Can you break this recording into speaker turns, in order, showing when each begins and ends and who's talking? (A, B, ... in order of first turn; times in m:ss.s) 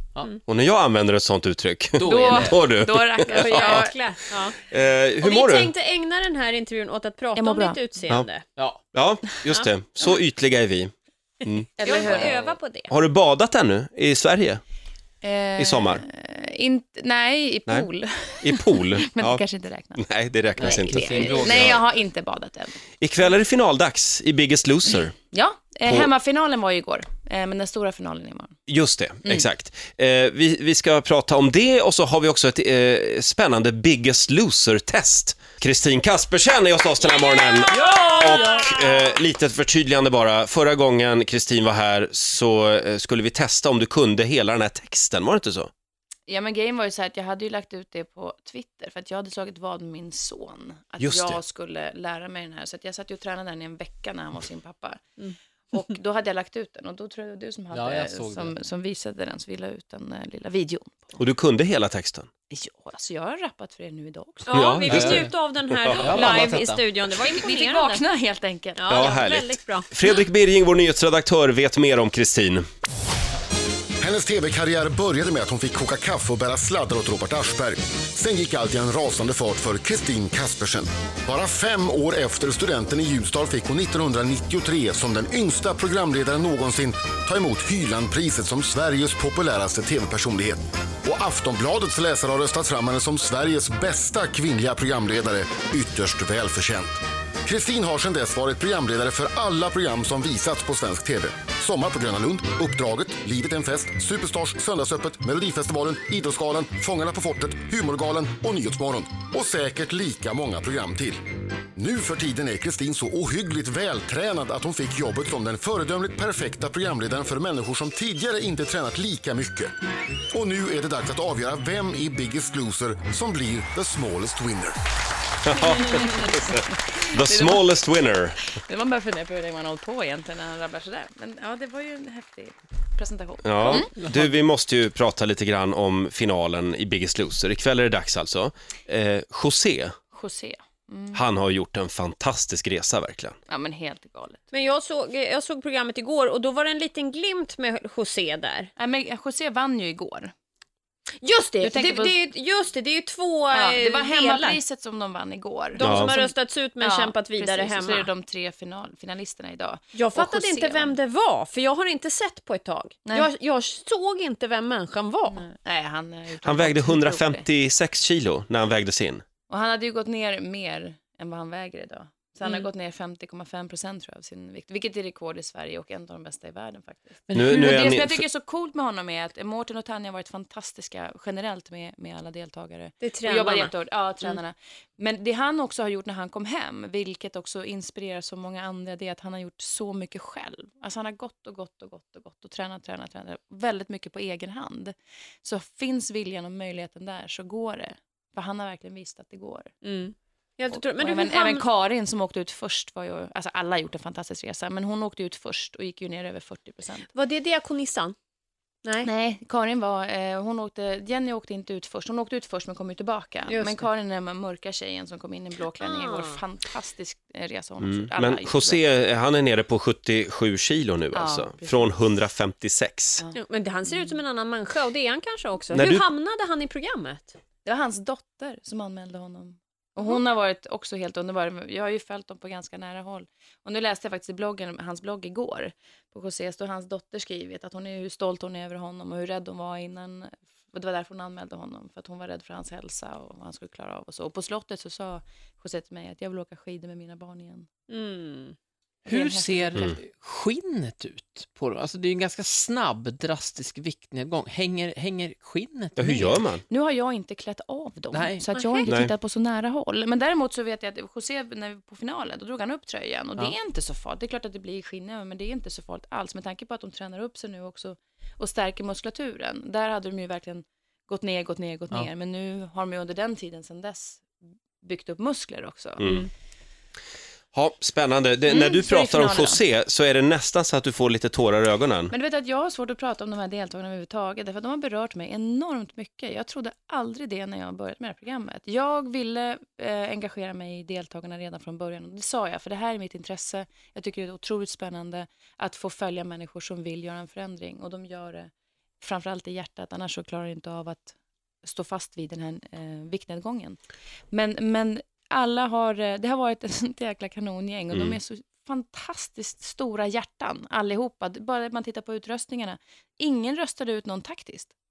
0:00.4-0:03.9 A
0:02.0-0:02.7 B
0:02.0-0:03.9 C
0:03.2-0:04.6 D
0:04.6-0:05.7 A
0:05.2-0:08.4 D
0:07.4-0:07.8 C
0:08.6-0:08.8 B
0:08.9-0:10.9 A
0:11.4-0:12.3 A
0:11.8-0:12.9 D
0:11.8-0:12.6 C
0:12.9-0:14.6 A
0:15.2-0:20.0 C
0:15.6-0:16.0 A
0:18.4-0:19.4 A
0:20.0-0:21.8 A
0:20.6-0:21.8 B
0:20.6-0:22.8 C
0:23.0-0:25.1 A
0:25.3-0:28.5 C
0:28.7-0:45.7 A
0:37.0-0:39.1 D
0:46.3-0:55.0 C
0:51.0-0:51.4 A
0:55.7-1:01.2 C
0:57.7-0:58.5 B
1:01.2-1:02.3 A
1:02.5-1:04.8 C
1:04.4-1:08.0 D
1:04.5-1:05.2 A
1:04.8-1:05.3 B
1:06.0-1:06.8 B
1:07.0-1:09.0 C
1:08.8-1:09.9 D
1:08.9-1:12.6 A
1:14.0-1:51.2 E
1:51.7-1:59.7 E
2:00.3-2:04.8 E
2:05.4-2:08.4 A
2:07.2-2:07.6 C
2:08.6-2:13.9 C
2:13.4-2:19.9 A
2:13.6-2:14.3 B
2:20.1-2:21.2 C
2:21.1-2:23.4 A
2:23.5-2:24.4 C
2:24.5-2:28.7 D
2:28.8-2:30.3 C
2:31.2-2:34.6 D
2:31.6-2:32.2 C
2:33.5-2:41.0 C
2:35.7-2:38.1 D
2:35.8-2:36.1 A
2:39.9-2:45.4 D
2:45.3-2:47.4 C
2:46.4-2:49.2 A
2:49.5-3:19.7 C
2:57.3-2:57.7 B
2:57.3-2:58.2 A
3:03.0-3:03.7 D
3:19.8-3:21.6 D
3:20.7-3:27.1 C
3:27.1-3:28.1 D
3:28.8-3:29.1 D
3:29.0-3:38.8 C
3:33.5-3:33.8 D
3:35.8-3:36.4 D
3:37.8-3:43.2 A
3:41.1-3:41.9 C
3:43.3-3:47.4 D
3:45.7-3:46.0 A
3:47.6-4:07.7 C
4:07.9-4:08.6 D
4:09.0-4:16.4 B
4:09.1-4:10.0 C
4:16.0-4:16.6 A
4:16.3-4:34.3 C
4:18.1-4:18.5 B
4:18.5-4:18.9 D
4:34.8-4:36.2 C
4:36.0-4:36.3 A
4:37.5-4:42.1 A
4:38.5-4:39.6 C
4:42.1-4:58.5 C
4:59.0-5:03.8 C
5:04.3-5:14.7 C
5:07.9-5:08.2 A